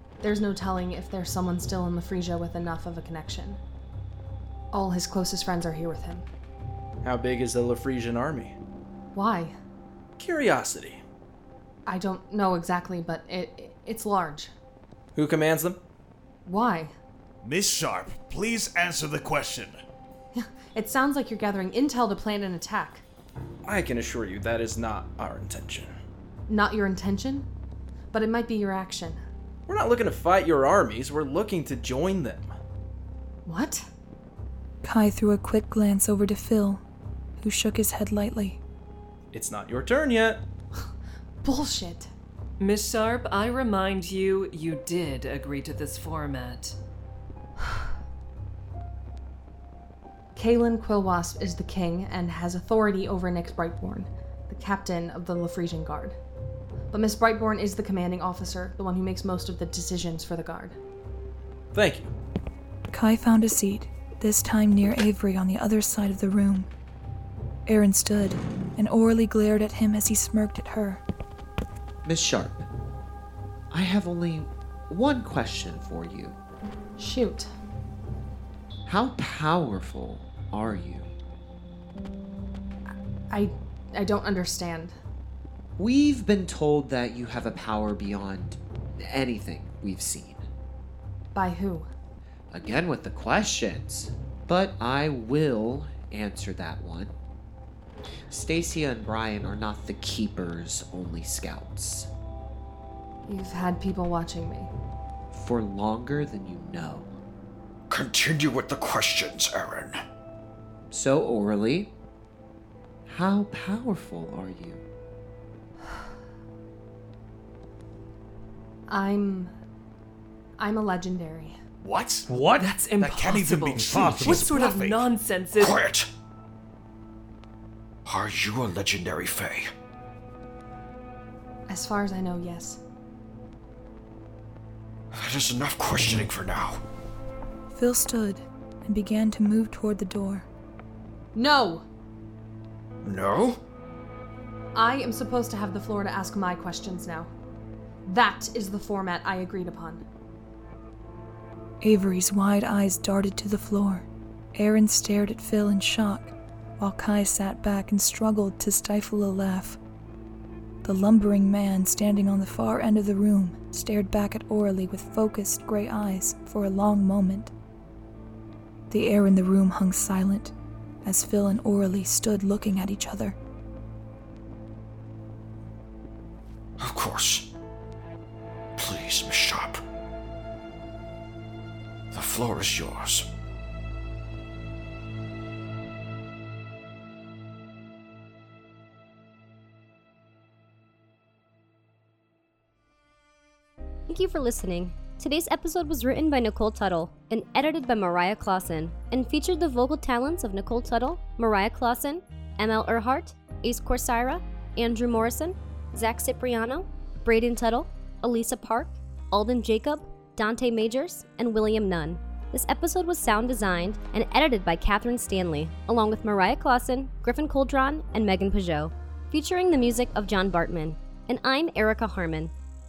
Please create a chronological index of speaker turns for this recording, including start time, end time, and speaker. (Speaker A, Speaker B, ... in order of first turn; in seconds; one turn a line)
Speaker A: 0.2-3.6
Speaker A: 4.7-6.3
Speaker B: 7.0-8.6
Speaker A: 9.2-9.6
Speaker B: 10.2-11.0
Speaker A: 11.9-14.5
Speaker B: 15.2-15.8
Speaker A: 16.5-16.9
Speaker C: 17.4-19.8
Speaker A: 20.4-23.1
Speaker B: 23.6-25.9
Speaker A: 26.5-27.5
Speaker A: 28.1-29.2
Speaker B: 29.7-32.5
Speaker A: 33.5-33.9
Speaker D: 34.8-36.8
Speaker D: 37.4-38.6
Speaker B: 39.3-40.4
Speaker A: 41.4-42.1
Speaker E: 42.6-46.8
Speaker A: 50.4-56.2
Speaker A: 56.9-60.8
Speaker B: 61.7-62.1
Speaker D: 62.9-66.7
Speaker D: 67.7-71.0
Speaker F: 72.0-72.7
Speaker F: 73.7-76.4
Speaker A: 77.0-77.5
Speaker F: 78.9-81.1
Speaker A: 83.3-85.0
Speaker F: 85.8-90.5
Speaker A: 91.3-91.9
Speaker F: 92.5-97.2
Speaker F: 98.3-102.1
Speaker A: 103.2-104.7
Speaker F: 105.3-107.1
Speaker G: 107.9-110.0
Speaker F: 110.9-111.9
Speaker F: 113.1-114.8
Speaker A: 118.9-119.5
Speaker A: 120.6-121.6
Speaker C: 121.8-125.1
Speaker E: 122.6-125.8
Speaker G: 125.6-126.1
Speaker G: 128.1-129.7
Speaker A: 131.7-132.8
Speaker G: 135.1-136.8
Speaker D: 137.7-140.5
Speaker A: 141.3-141.8
Speaker G: 143.0-143.6
Speaker A: 144.8-147.3
Speaker A: 148.1-150.0
Speaker D: 151.8-159.8
Speaker D: 160.8-167.5
Speaker D: 168.9-170.5
Speaker D: 171.0-173.4
Speaker G: 176.8-177.5
Speaker G: 178.8-179.8
Speaker G: 182.1-183.3
Speaker H: 194.1-222.5